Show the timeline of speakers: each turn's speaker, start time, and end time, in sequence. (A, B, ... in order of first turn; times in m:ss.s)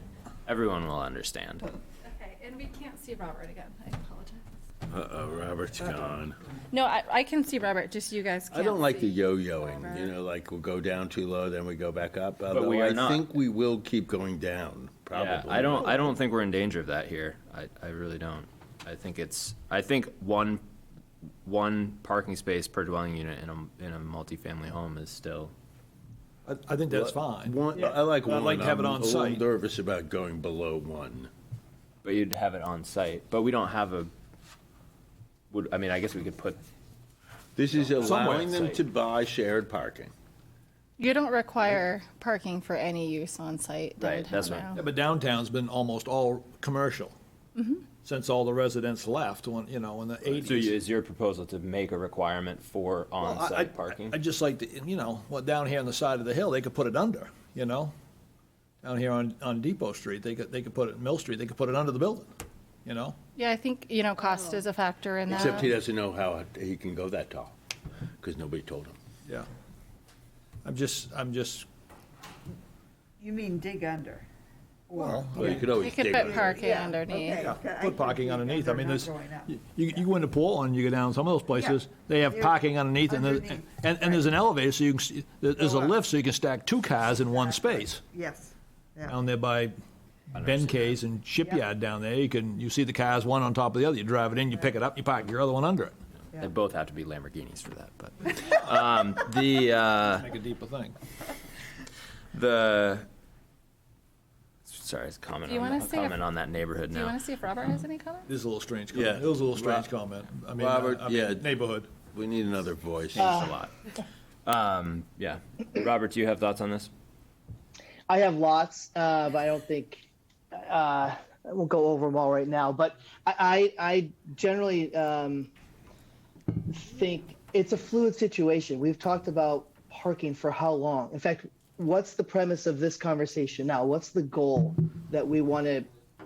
0:00.4-0:01.7 A
0:02.0-0:04.5 B
0:04.9-0:06.4 C
0:06.7-0:10.1 B
0:08.5-0:16.0 C
0:12.5-0:13.4 A
0:15.1-0:20.6 A
0:21.4-0:25.5 A
0:26.4-0:29.4 D
0:26.9-0:31.3 C
0:32.0-0:34.1 A
0:35.5-0:36.6 A
0:37.6-0:40.1 C
0:37.8-0:38.8 A
0:38.0-0:38.6 D
0:41.0-0:44.8 B
0:44.0-0:44.8 A
0:44.8-0:47.1 D
0:47.6-0:47.8 B
0:48.0-0:50.8 D
0:50.3-0:54.2 A
0:53.2-0:57.9 D
0:58.8-1:02.3 D
1:02.8-1:03.2 D
1:03.4-1:05.7 B
1:05.3-1:07.5 C
1:08.2-1:09.0 C
1:10.6-1:11.7 D
1:13.2-1:14.3 E
1:14.9-1:19.6 E
1:15.0-1:15.7 D
1:15.4-1:16.6 C
1:15.7-1:17.5 B
1:17.4-1:28.0 D
1:21.5-1:21.8 E
1:22.3-1:24.2 E
1:25.6-1:26.0 E
1:27.2-1:29.2 E
1:29.0-1:29.7 D
1:30.3-1:35.9 D
1:30.3-1:30.9 A
1:36.3-1:40.3 A
1:40.1-1:41.0 D
1:42.3-1:43.1 A
1:44.6-1:47.2 A
1:45.5-1:46.2 B
1:46.9-1:48.3 B
1:48.3-1:52.0 D
1:48.9-1:49.9 C
1:50.6-1:53.4 C
1:53.1-1:53.7 A
1:53.2-1:53.6 F
1:54.4-1:56.9 A
1:58.1-2:05.5 F
2:06.7-2:15.9 F